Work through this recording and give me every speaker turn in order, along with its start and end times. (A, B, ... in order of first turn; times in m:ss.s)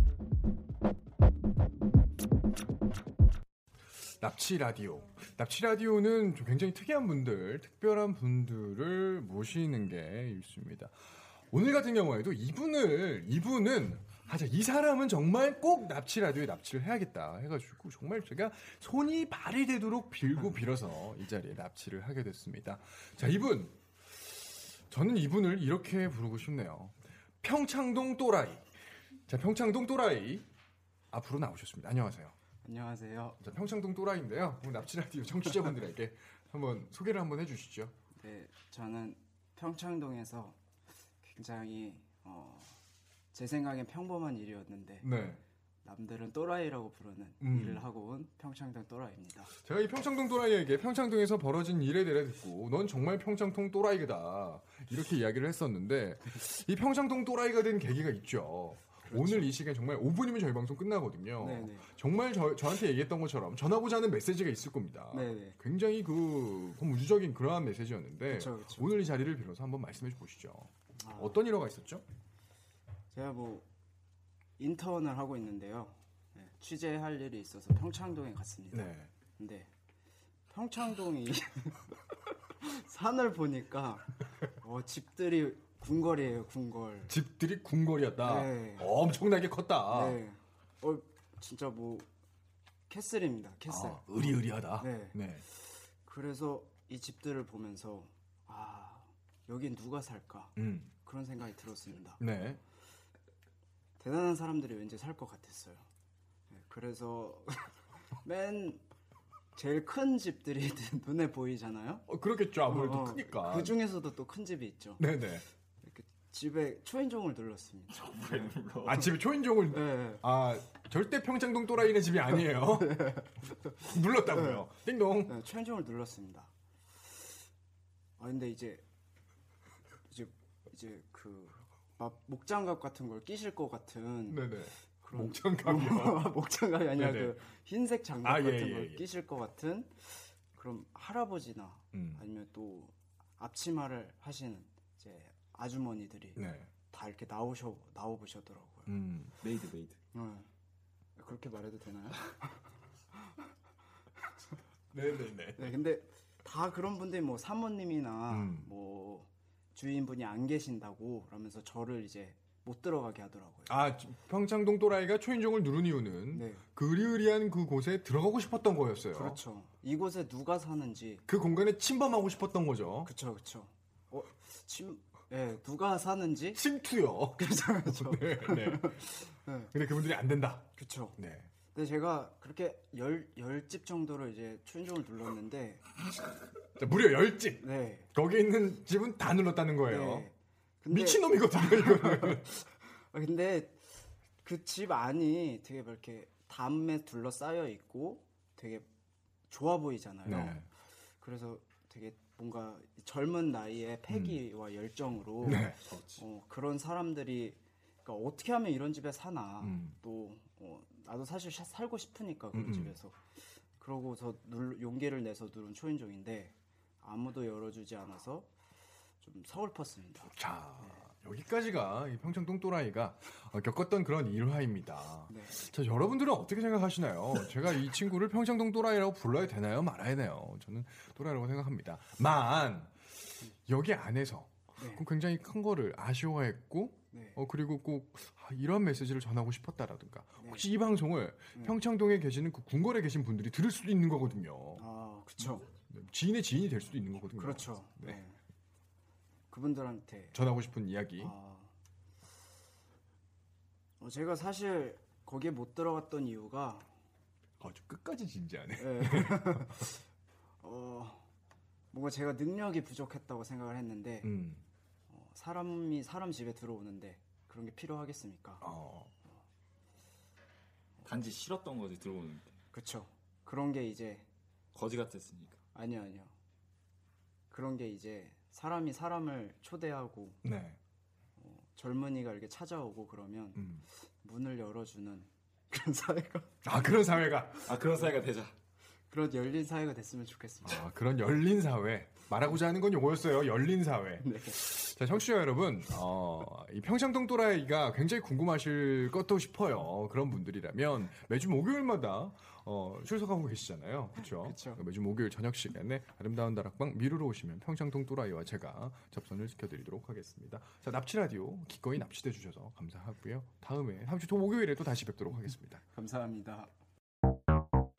0:04.2-0:10.9 A
0:11.5-0:23.8 A
0:24.9-0:28.6 A
0:29.3-0:30.4 A
0:31.1-0:32.3 A
0:32.6-0:33.4 B
0:33.4-0:37.9 A
0:38.2-0:40.6 B
0:41.2-0:42.8 B
0:43.3-0:45.1 B
0:45.0-0:45.4 A
0:45.8-0:49.5 B
0:47.4-0:47.8 A
0:49.6-1:12.0 A
0:59.0-0:59.5 B
1:01.4-1:01.9 B
1:05.1-1:05.6 B
1:08.3-1:08.9 B
1:11.0-1:11.4 B
1:13.1-1:13.6 B
1:14.6-1:19.7 B
1:18.7-1:19.1 A
1:20.5-1:27.1 B
1:27.0-1:30.2 A
1:28.2-1:28.9 B
1:29.9-1:32.1 B
1:32.9-1:42.2 B
1:33.7-1:35.4 A
1:40.6-1:40.9 A
1:42.2-1:42.6 A
1:44.0-1:45.8 B
1:46.5-1:48.8 B
1:49.5-1:52.0 B
1:52.1-1:53.7 A
1:52.7-1:55.0 B
1:55.0-1:55.4 A
1:55.8-1:58.5 B
1:58.0-1:59.1 C
1:58.8-2:03.2 A
1:59.7-2:00.2 B
2:02.8-2:03.7 B
2:03.8-2:05.3 A
2:04.3-2:04.6 B
2:05.2-2:06.5 B
2:08.2-2:08.8 B
2:10.1-2:14.5 B
2:14.3-2:16.3 A
2:15.0-2:28.9 B
2:16.9-2:17.4 A
2:18.2-2:19.0 A
2:21.9-2:22.2 A
2:26.4-2:26.7 A
2:28.9-2:29.5 A
2:29.4-2:30.0 C
2:30.1-2:30.5 B
2:31.2-2:33.5 B
2:34.9-2:35.7 A
2:35.5-2:43.7 B
2:38.3-2:38.7 A
2:43.7-2:49.4 A
2:46.3-2:46.6 B
2:49.1-2:51.2 B
2:51.2-2:53.1 A
2:53.0-2:56.6 B
2:56.5-2:59.0 A
2:57.3-2:59.7 B
2:59.7-3:01.5 A
3:00.7-3:01.2 B
3:01.7-3:05.8 B
3:06.8-3:10.3 A
3:07.6-3:08.1 B
3:09.9-3:18.9 B
3:10.9-3:12.5 A
3:19.5-3:20.6 B
3:20.2-3:20.6 A
3:21.2-3:38.5 B
3:24.1-3:24.4 A
3:25.4-3:25.9 A
3:29.6-3:29.9 A
3:32.5-3:33.0 A
3:39.2-3:41.0 B
3:40.2-3:53.0 A
3:45.3-3:45.6 B
3:53.7-4:04.8 A
3:54.8-3:55.0 B
3:57.1-3:57.4 B
4:00.4-4:00.7 B
4:04.8-4:05.7 B
4:05.8-4:08.2 A
4:07.3-4:08.4 B
4:09.5-4:10.4 B
4:10.3-4:11.3 A
4:11.2-4:11.7 B
4:14.0-4:16.9 B
4:17.6-4:19.6 A
4:18.8-4:20.0 B
4:20.6-4:21.3 B
4:21.9-4:24.3 B
4:24.2-4:24.6 A
4:25.1-4:28.6 B
4:28.6-4:29.1 A
4:31.0-4:32.5 C
4:32.7-4:34.3 B
4:34.7-4:35.6 C
4:35.7-4:36.3 B
4:37.5-4:40.4 B
4:40.4-4:40.8 A
4:41.4-4:43.6 B
4:43.5-4:43.8 A
4:44.2-4:46.5 B
4:46.6-4:47.7 A
4:47.6-4:48.5 C
4:49.1-4:50.8 B
4:50.6-5:15.8 A
4:54.2-4:54.6 B
5:04.2-5:04.8 B
5:15.9-5:16.7 B